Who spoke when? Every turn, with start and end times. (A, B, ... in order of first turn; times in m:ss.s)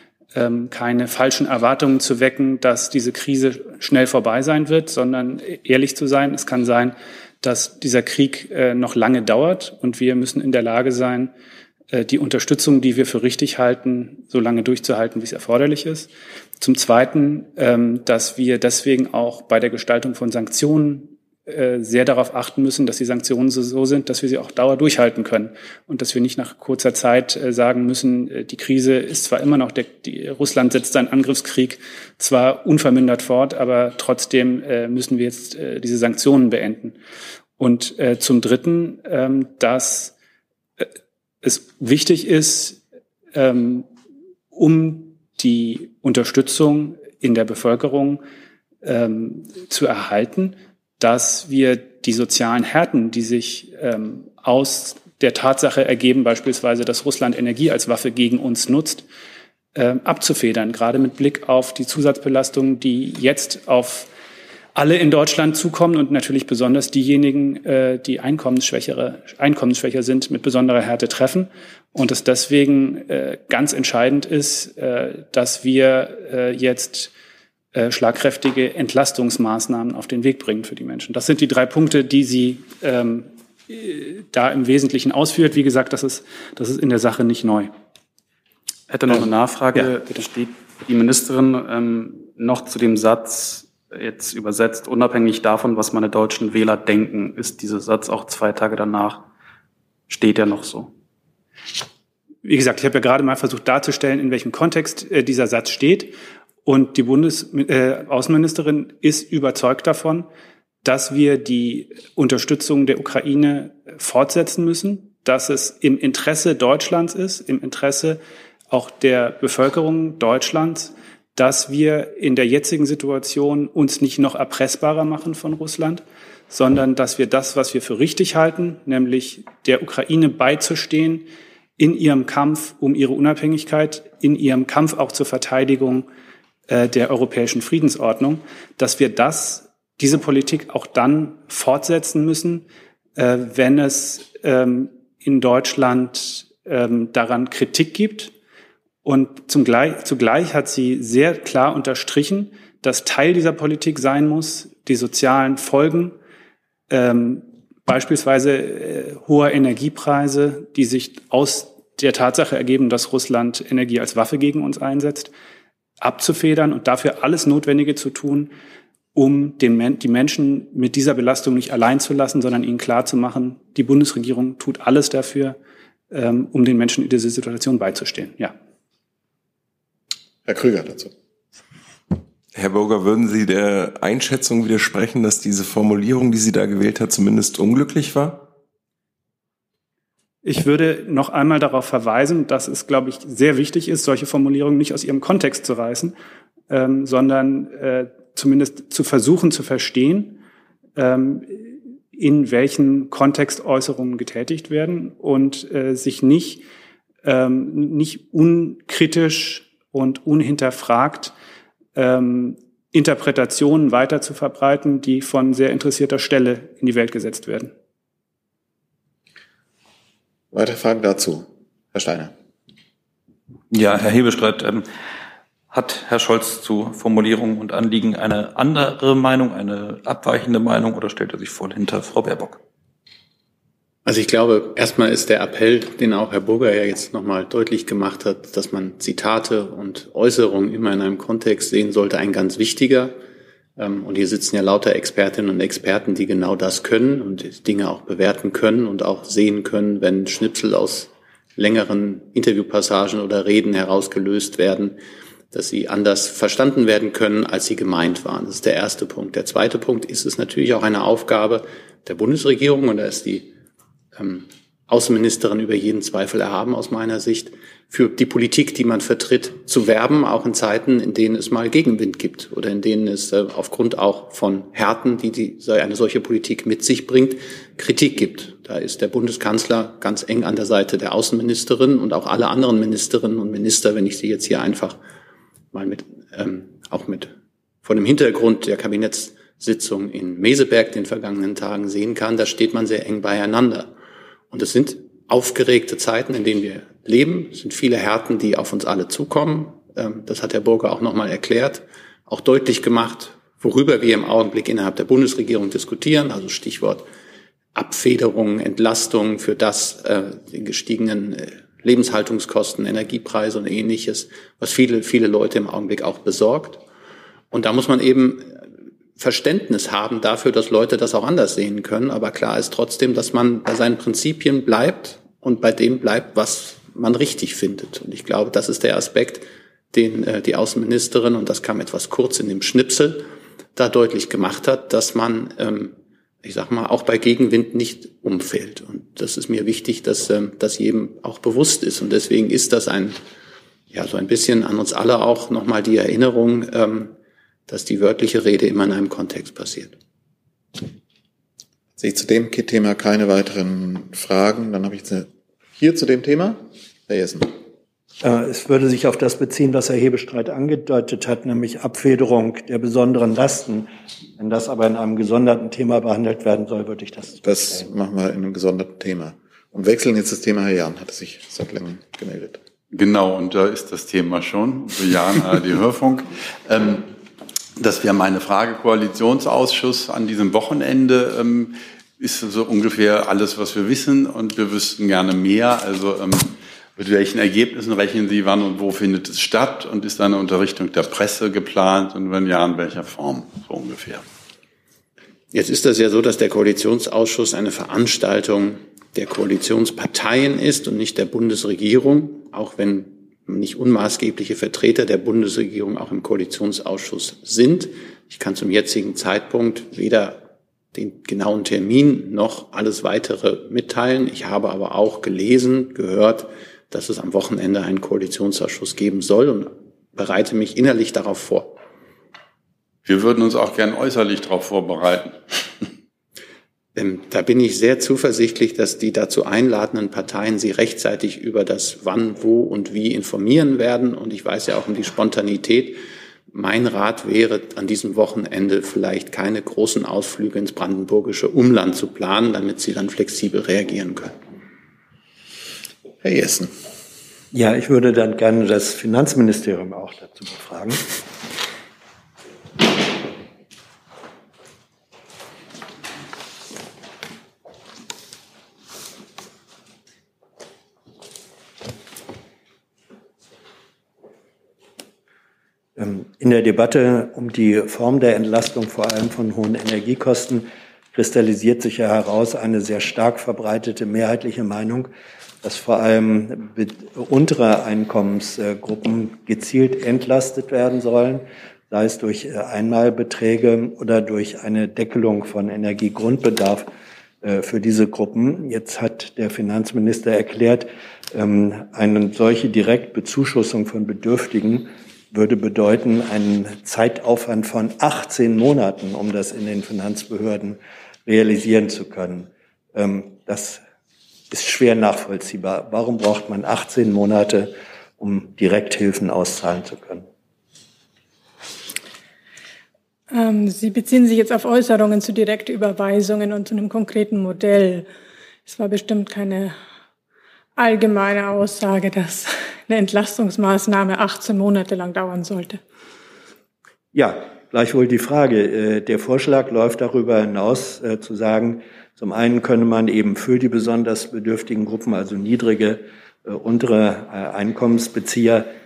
0:00.3-0:11.3 A
0:11.9-0:37.0 A
0:37.6-0:40.1 A
0:41.4-0:42.8 A
0:43.3-0:43.9 A
0:44.5-0:48.2 A
0:48.8-0:59.0 A
0:59.7-1:04.1 A
1:04.7-1:17.1 A
1:17.7-1:27.7 A
1:28.9-1:39.3 B
1:40.1-1:40.9 B
1:42.4-1:46.1 A
1:46.6-1:50.3 A
1:50.8-1:58.2 A
1:58.7-2:11.3 A
2:11.8-2:16.1 A
2:16.7-2:22.6 A
2:23.2-2:28.3 A
2:29.0-2:36.1 A
2:36.9-2:45.3 A
2:46.0-2:48.5 A
2:49.1-2:55.6 A
2:56.1-2:58.5 A
3:00.4-3:01.1 C
3:02.5-3:08.4 D
3:10.4-3:16.1 A
3:16.7-3:20.4 A
3:21.0-3:26.6 A
3:27.2-3:31.3 A
3:31.9-3:37.7 A
3:40.5-3:42.3 C
3:43.7-3:44.8 E
3:45.7-3:52.6 E
3:54.0-4:03.1 F
4:03.8-4:15.0 F
4:15.5-4:23.5 F
4:24.1-4:45.0 F
4:45.7-4:47.3 F
4:47.8-4:53.9 F
4:54.5-5:07.0 F
5:07.7-5:16.8 F
5:17.5-5:18.6 F
5:19.2-5:43.2 F
5:43.9-5:47.1 F
5:47.7-5:49.9 F
5:52.0-5:57.5 C
5:58.2-6:07.9 G
6:07.4-6:12.6 C
6:12.9-6:17.1 H
6:17.8-6:34.2 H
6:35.5-7:01.7 F
7:03.0-7:05.4 H
7:07.0-7:16.0 F
7:16.5-7:24.3 F
7:26.2-7:26.6 C
7:27.5-7:31.0 G
7:46.0-7:55.1 G
7:55.6-8:06.9 G
8:07.4-8:23.8 G
8:24.5-8:30.2 G
8:33.3-8:38.1 I
8:38.6-8:39.8 I
8:40.8-8:45.8 I
8:47.1-8:58.7 G